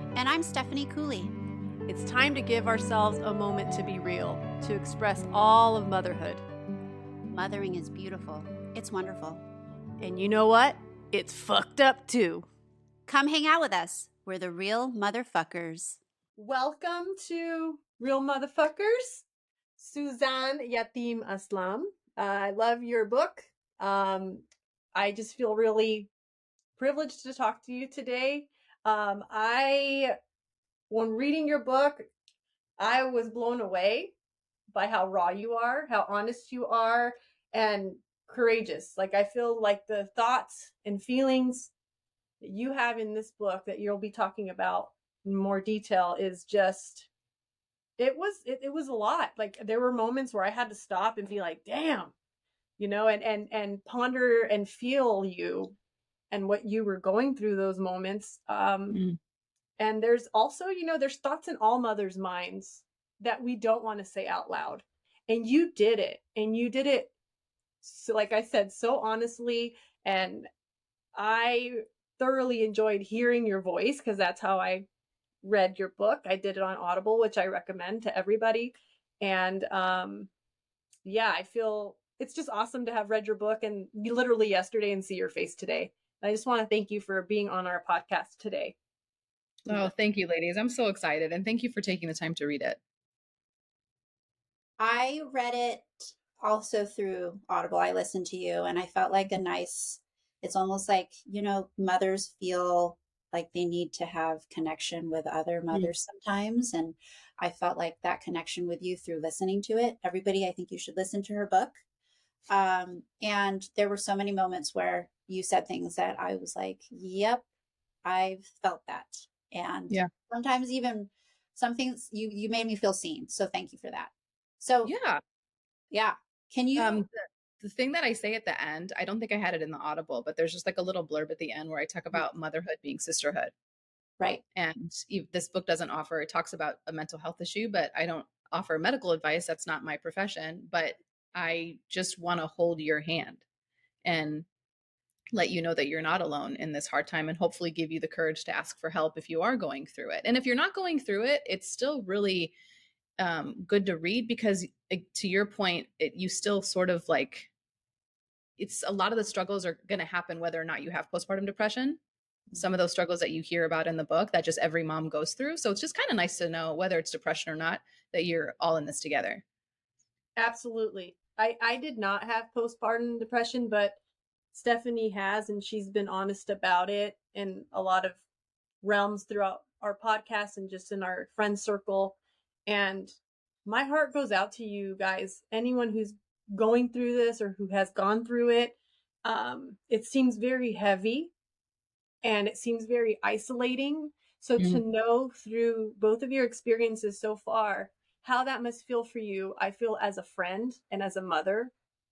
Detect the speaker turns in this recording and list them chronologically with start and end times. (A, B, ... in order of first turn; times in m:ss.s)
0:00.1-0:01.3 A
0:01.9-0:06.4 B
0:07.3-0:09.4 A
0:10.0-0:12.5 B
0:13.1-0:16.0 A
0:16.4-0:19.2 B
0:19.8-0:26.1 B
0:26.8-0:30.2 B
0:30.9-0:32.1 B
0:32.8-0:34.1 B
0:34.7-0:41.7 B
0:42.4-0:47.1 B
0:48.0-0:52.1 B
0:52.8-0:55.8 B
0:56.3-0:59.0 B
0:58.9-0:59.2 C
0:59.8-1:07.1 B
1:07.8-1:10.5 B
1:11.1-1:14.9 B
1:15.4-1:20.3 B
1:21.0-1:28.8 B
1:29.7-1:32.8 C
1:34.8-1:51.8 A
1:52.5-1:57.4 A
1:58.0-2:04.9 A
2:04.8-2:05.2 C
2:05.9-2:07.0 A
2:06.8-2:13.5 C
2:14.5-2:23.4 C
2:24.0-2:24.4 C
2:25.3-2:32.5 C
2:33.2-2:37.5 C
2:38.6-2:42.0 C
2:42.5-2:49.4 C
2:50.4-2:54.0 B
2:54.5-2:58.2 B
2:58.8-3:11.3 B
3:12.2-3:21.7 B